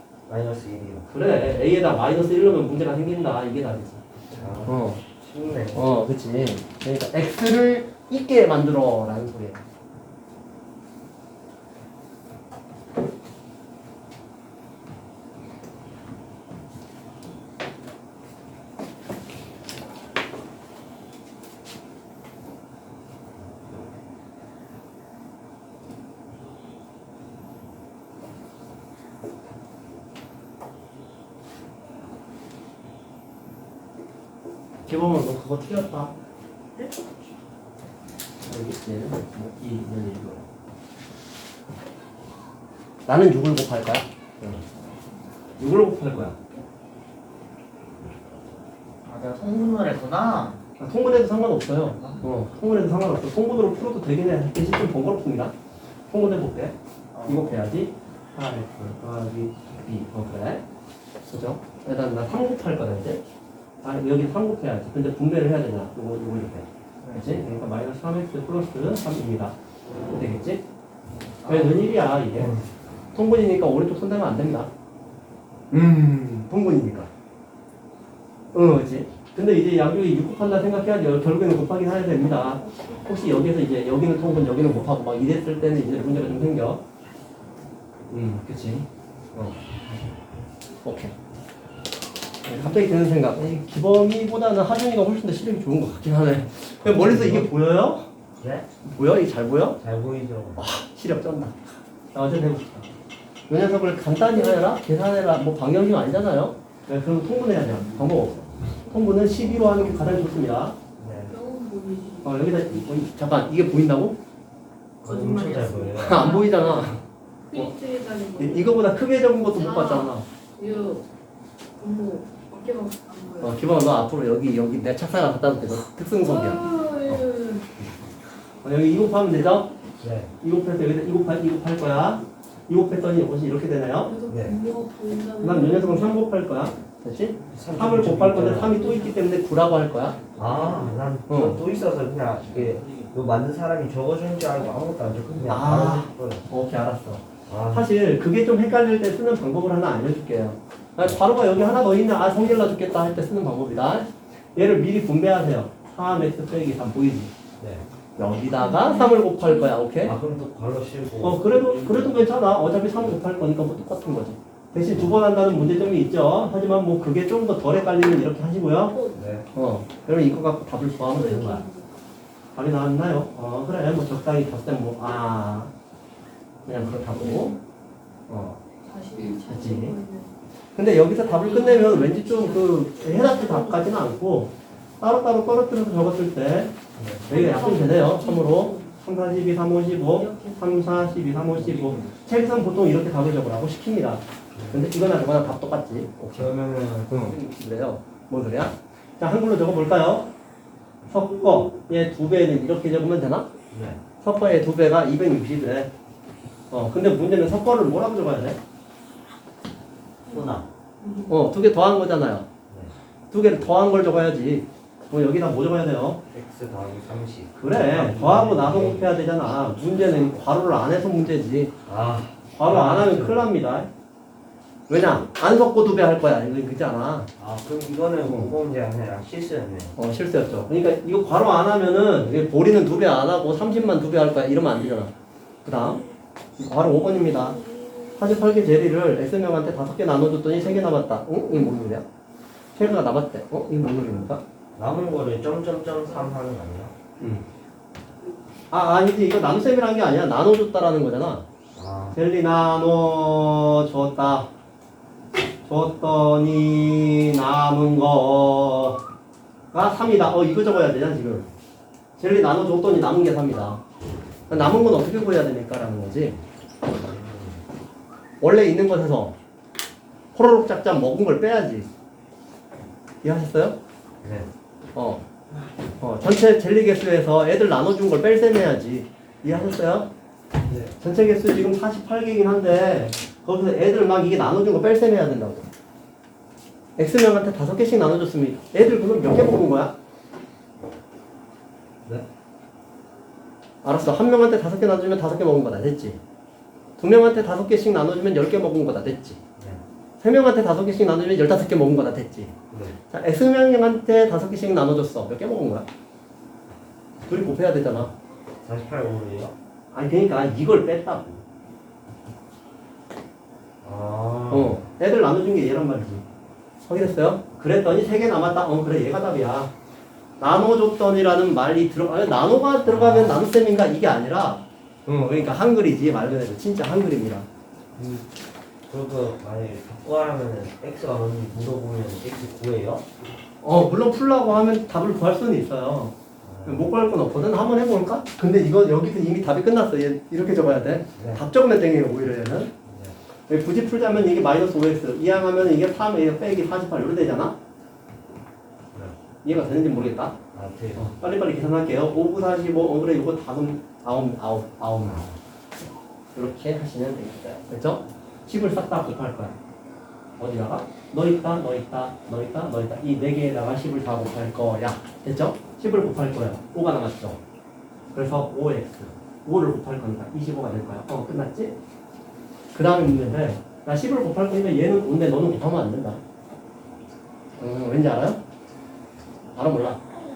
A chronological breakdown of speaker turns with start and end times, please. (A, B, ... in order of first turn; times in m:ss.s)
0:00.3-0:01.1 A
0:01.1-0:04.0 B
0:04.4-0:05.9 A
0:04.6-0:05.0 B
0:05.7-0:09.6 B
0:34.8-0:36.1 B
0:38.4-0:40.4 B
0:43.1-0:44.6 B
0:45.6-0:46.4 B
0:49.0-0:50.6 C
0:50.8-0:55.5 B
0:56.1-1:00.6 B
0:57.2-0:57.4 C
1:01.2-1:03.2 B
1:03.8-1:09.6 B
1:10.1-1:10.6 B
1:11.4-1:11.8 C
1:11.4-1:12.5 B
1:13.1-1:14.7 B
1:15.7-1:17.1 B
1:18.5-1:26.8 B
1:22.6-1:22.9 D
1:28.1-1:29.6 B
1:30.8-1:31.1 B
1:32.4-1:38.1 B
1:36.8-1:37.5 A
1:38.4-1:38.7 A
1:38.8-1:39.8 B
1:39.8-1:40.6 A
1:40.6-1:41.6 B
1:42.1-1:42.9 B
1:43.5-1:50.8 B
1:44.4-1:44.6 D
1:51.0-1:51.3 A
1:51.3-1:52.8 D
1:52.2-1:54.2 B
1:55.0-1:56.4 A
1:55.0-1:57.0 D
1:56.0-1:57.0 B
1:57.5-1:58.8 D
1:58.4-2:00.2 B
1:59.5-2:01.0 D
2:01.8-2:03.6 D
2:03.4-2:07.3 B
2:06.2-2:07.7 D
2:08.6-2:09.7 B
2:10.0-2:10.3 A
2:10.4-2:14.1 B
2:14.0-2:16.2 D
2:14.3-2:14.6 A
2:15.4-2:21.6 B
2:17.5-2:18.8 A
2:18.8-2:19.1 D
2:20.4-2:26.4 A
2:22.5-2:23.0 B
2:25.5-2:37.3 B
2:27.5-2:27.9 A
2:37.6-2:37.8 A
2:38.2-2:40.2 B
2:38.6-2:39.7 D
2:40.0-2:42.3 A
2:41.2-2:49.0 B
2:48.9-2:49.2 D
2:49.1-2:49.5 A
2:49.5-2:51.6 B
2:51.1-2:52.1 D
2:52.5-2:55.7 B
2:56.7-2:57.5 B
2:57.1-2:57.6 D
2:58.3-2:58.6 B
2:58.8-3:00.3 D
2:59.2-3:00.0 B
3:00.8-3:06.8 B
3:01.2-3:03.9 D
3:07.0-3:07.5 A
3:07.3-3:16.5 B
3:07.3-3:09.0 D
3:10.1-3:11.0 D
3:11.5-3:12.1 A
3:14.5-3:14.9 A
3:16.4-3:17.3 A
3:17.0-3:20.3 B
3:21.1-3:23.5 B
3:23.7-3:24.0 A
3:24.2-3:25.9 B
3:26.7-3:28.6 B
3:30.3-3:30.7 A
3:31.0-3:31.3 D
3:31.3-3:32.5 B
3:33.3-3:36.2 B
3:36.3-3:39.2 A
3:37.6-3:41.7 B
3:41.8-3:43.5 A
3:42.5-3:43.9 B
3:44.9-3:47.3 B
3:47.4-3:49.9 A
3:48.2-3:48.5 B
3:50.0-3:55.1 B
3:55.6-3:56.0 B
3:56.6-3:57.6 B
3:58.2-4:02.0 B
4:02.8-4:04.4 B
4:04.8-4:07.0 A
4:07.2-4:07.5 B
4:08.7-4:11.4 B
4:11.8-4:12.2 A
4:12.1-4:14.5 B
4:15.7-4:19.0 B
4:19.7-4:21.5 B
4:22.2-4:23.8 B
4:24.5-4:25.0 A
4:24.5-4:26.4 B
4:26.9-4:27.6 A
4:28.4-4:29.4 B
4:30.3-4:31.9 B
4:33.2-4:33.8 B
4:34.2-4:34.5 A
4:35.0-4:35.2 B
4:36.0-4:40.1 B
4:40.7-4:41.0 A
4:41.0-4:45.6 B
4:47.0-4:49.9 B
4:53.8-4:56.2 B
4:57.0-4:59.4 B
5:00.2-5:02.5 B
5:02.7-5:03.0 A
5:03.1-5:05.9 B
5:07.3-5:08.1 B
5:08.6-5:09.6 A
5:09.9-5:11.4 B
5:13.8-5:14.8 A
5:14.5-5:16.2 B
5:16.9-5:19.7 B
5:20.4-5:27.5 B
5:22.8-5:23.4 A
5:28.0-5:28.3 A
5:28.9-5:33.1 A
5:33.6-5:42.7 B
5:36.4-5:36.9 A
5:41.2-5:41.4 A
5:42.9-5:43.2 A
5:43.5-5:47.6 B
5:49.4-5:50.4 B
5:50.5-5:51.1 A
5:51.0-5:55.4 B
5:56.4-5:59.6 B
6:00.4-6:07.4 B
6:08.1-6:11.8 B
6:12.7-6:16.2 B
6:17.6-6:18.4 B
6:19.6-6:20.0 B